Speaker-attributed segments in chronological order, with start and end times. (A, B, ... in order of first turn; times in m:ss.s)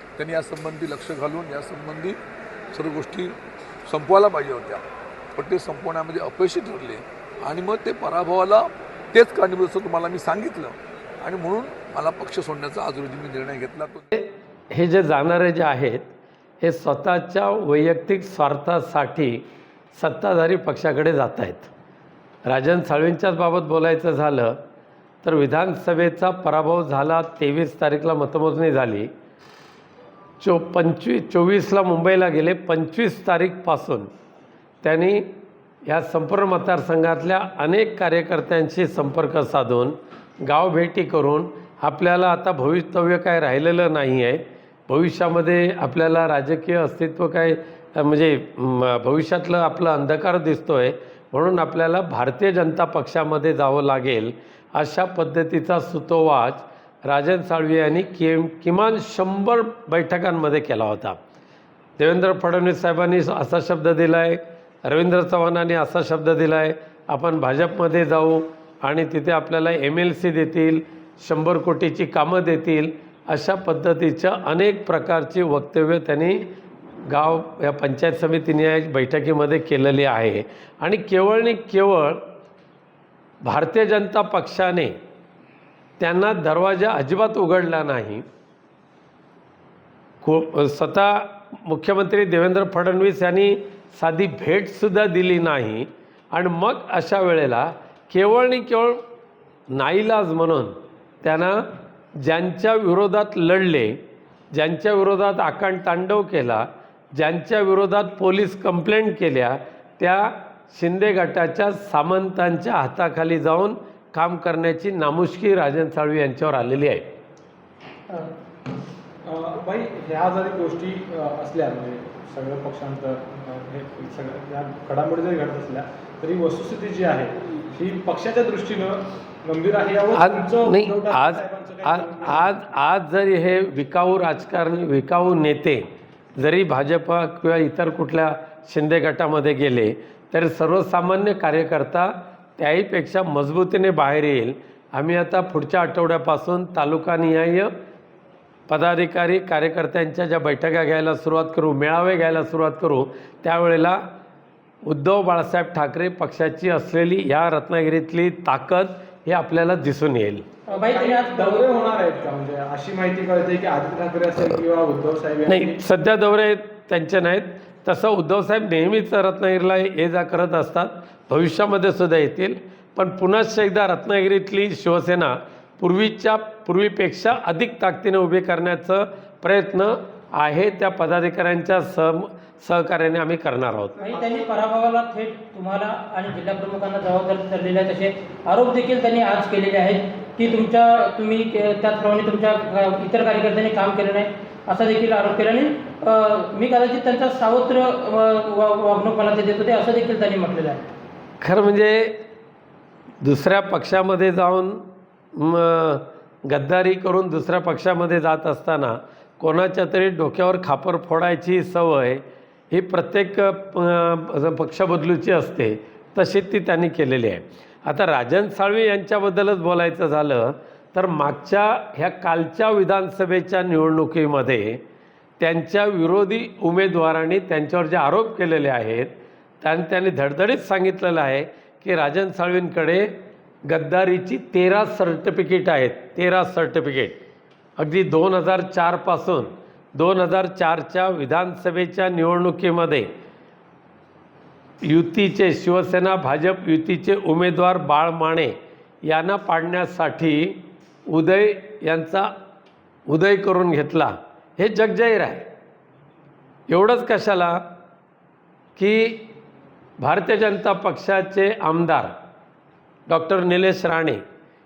0:00.2-0:02.2 A
0:02.7-0:03.4 A
0:03.9-0:04.8 A
0:05.4-0:14.1 A
0:14.1-0:21.7 B
0:22.5-0:24.6 B
0:25.2-0:29.1 B
0:30.4-0:34.1 B
0:34.8-0:35.3 B
0:35.9-1:01.2 B
1:02.0-1:16.5 B
1:17.1-1:22.2 B
1:23.4-1:24.9 B
1:26.0-1:28.2 B
1:30.2-1:39.0 B
1:39.7-1:41.6 B
1:42.2-1:44.0 B
1:44.5-1:57.0 B
1:59.2-2:12.6 C
2:10.2-2:15.8 B
2:16.4-2:27.7 B
2:28.7-2:34.0 B
2:34.8-2:40.4 B
2:40.7-2:41.7 D
2:40.8-2:45.8 C
2:45.5-3:04.0 B
3:04.0-3:20.9 D
3:04.1-3:04.5 C
3:21.4-3:22.2 B
3:23.2-3:44.8 B
3:45.4-3:53.2 B
3:53.7-3:57.2 B
3:57.8-4:03.1 B
4:04.8-4:12.3 B
4:13.1-4:15.5 B
4:16.7-4:17.6 B
4:18.8-4:19.3 B
4:20.0-4:22.1 B
4:23.1-4:24.2 B